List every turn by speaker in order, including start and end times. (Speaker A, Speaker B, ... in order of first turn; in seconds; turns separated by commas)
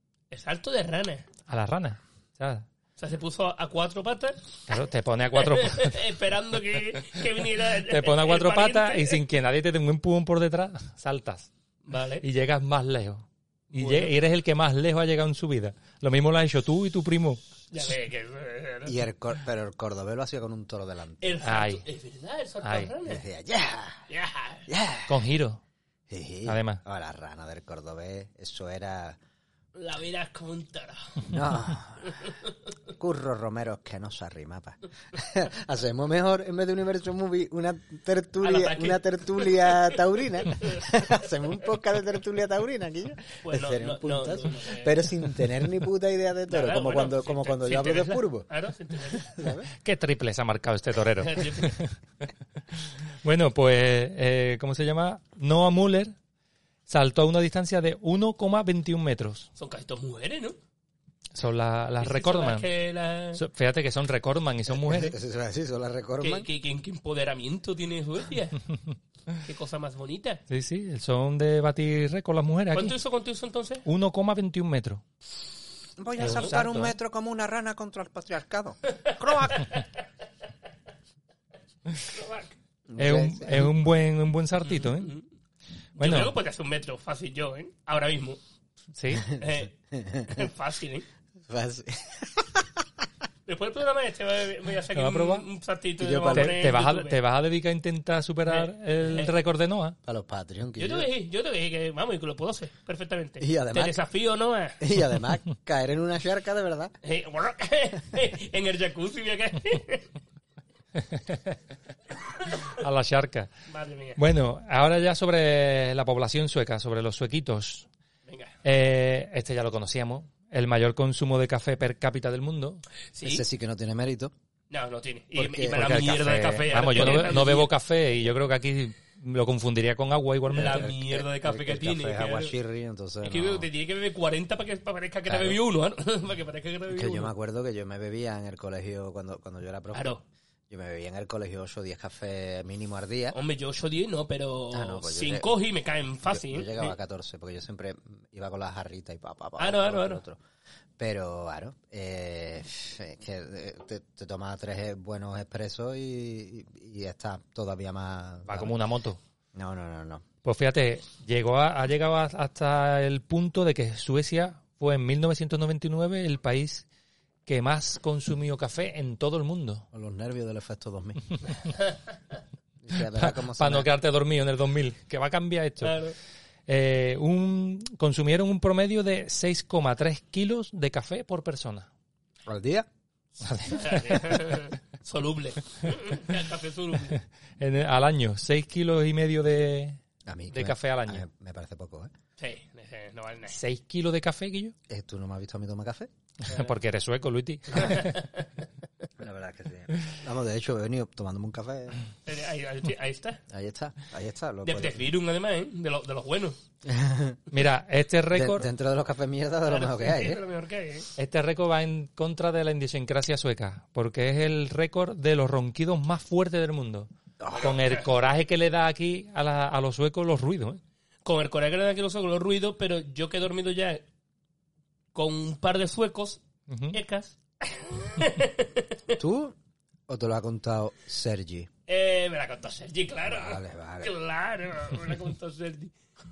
Speaker A: 0.3-1.2, Speaker B: 1.5-2.6, Speaker A: 3.0-4.4, Speaker B: 4.7-6.0, Speaker A: 5.4-9.2, Speaker B: 7.8-11.5, Speaker A: 11.9-12.2, Speaker B: 12.2-17.4, Speaker A: 13.7-14.1, Speaker A: 17.7-19.0, Speaker C: 18.9-21.4, Speaker A: 21.2-23.2, Speaker B: 21.4-21.8, Speaker B: 22.6-22.9, Speaker C: 23.1-24.0, Speaker A: 24.1-24.7, Speaker C: 24.7-25.2, Speaker B: 25.1-25.6, Speaker C: 26.1-29.2, Speaker B: 26.5-26.8, Speaker A: 29.8-31.2, Speaker C: 31.3-32.2, Speaker C: 33.0-48.5, Speaker A: 38.4-39.9, Speaker A: 43.4-45.0, Speaker A: 46.5-49.3, Speaker C: 49.1-49.7, Speaker B: 49.8-52.0, Speaker A: 51.2-51.8, Speaker B: 52.7-56.1, Speaker B: 56.9-59.5, Speaker A: 59.6-60.5, Speaker B: 61.3-62.7, Speaker A: 62.0-63.4, Speaker B: 63.4-65.2, Speaker C: 64.7-66.5, Speaker A: 66.2-68.6, Speaker A: 69.4-70.4, Speaker B: 70.5-73.0, Speaker A: 72.7-73.8, Speaker B: 73.8-75.0, Speaker C: 76.0-79.7, Speaker A: 76.2-76.5, Speaker B: 76.2-76.9, Speaker A: 79.1-79.8, Speaker A: 82.1-82.5, Speaker C: 82.9-83.7, Speaker B: 83.0-85.1, Speaker A: 84.6-85.2, Speaker B: 86.0-86.3, Speaker A: 86.0-88.4, Speaker B: 88.9-89.3, Speaker A: 89.3-89.8, Speaker C: 89.9-90.5, Speaker A: 90.3-91.0, Speaker C: 91.5-92.8, Speaker A: 93.5-97.2, Speaker B: 95.0-95.5, Speaker C: 96.0-96.7, Speaker B: 96.3-100.0, Speaker A: 98.5-99.3, Speaker C: 100.0-101.1, Speaker A: 100.8-104.8, Speaker C: 103.4-104.0, Speaker C: 104.8-106.9, Speaker A: 107.0-110.1, Speaker B: 111.0-111.5, Speaker B: 112.7-113.5, Speaker A: 113.7-114.2, Speaker B: 114.2-117.9, Speaker A: 118.3-118.5, Speaker B: 118.6-122.8, Speaker A: 123.1-123.5, Speaker C: 123.2-124.3, Speaker A: 124.7-127.7, Speaker C: 125.3-126.0, Speaker B: 125.7-130.9, Speaker A: 130.5-132.5, Speaker C: 130.6-133.7, Speaker A: 133.2-137.3, Speaker C: 135.3-135.6, Speaker C: 136.9-140.2, Speaker A: 139.9-140.2, Speaker C: 140.7-143.3, Speaker A: 143.3-146.9, Speaker C: 144.7-145.5, Speaker C: 146.3-150.4, Speaker A: 149.6-150.2, Speaker C: 151.0-158.8, Speaker B: 158.5-159.2, Speaker C: 159.5-160.2, Speaker B: 160.4-166.8, Speaker B: 167.5-169.8, Speaker C: 169.9-171.3, Speaker C: 172.8-173.9, Speaker B: 173.1-176.0, Speaker A: 175.8-176.2, Speaker B: 176.7-181.9, Speaker C: 182.5-182.9, Speaker B: 183.4-184.6, Speaker A: 183.7-187.2, Speaker B: 187.6-191.2, Speaker C: 190.2-192.1, Speaker A: 192.4-193.6, Speaker B: 193.5-194.7, Speaker C: 194.9-196.1, Speaker B: 196.5-198.2, Speaker A: 197.7-198.4, Speaker C: 199.2-202.0, Speaker A: 202.2-203.4, Speaker C: 203.5-205.1, Speaker A: 204.7-206.6, Speaker C: 206.8-207.4, Speaker B: 207.5-208.7, Speaker C: 208.3-210.4, Speaker A: 209.7-211.1, Speaker B: 211.2-217.1, Speaker C: 217.4-217.8, Speaker A: 217.5-218.1, Speaker B: 217.6-220.8, Speaker A: 221.2-224.0, Speaker A: 225.1-229.0, Speaker B: 226.7-227.0, Speaker C: 229.2-229.5, Speaker C: 230.1-231.7, Speaker A: 231.9-235.9, Speaker C: 233.2-234.1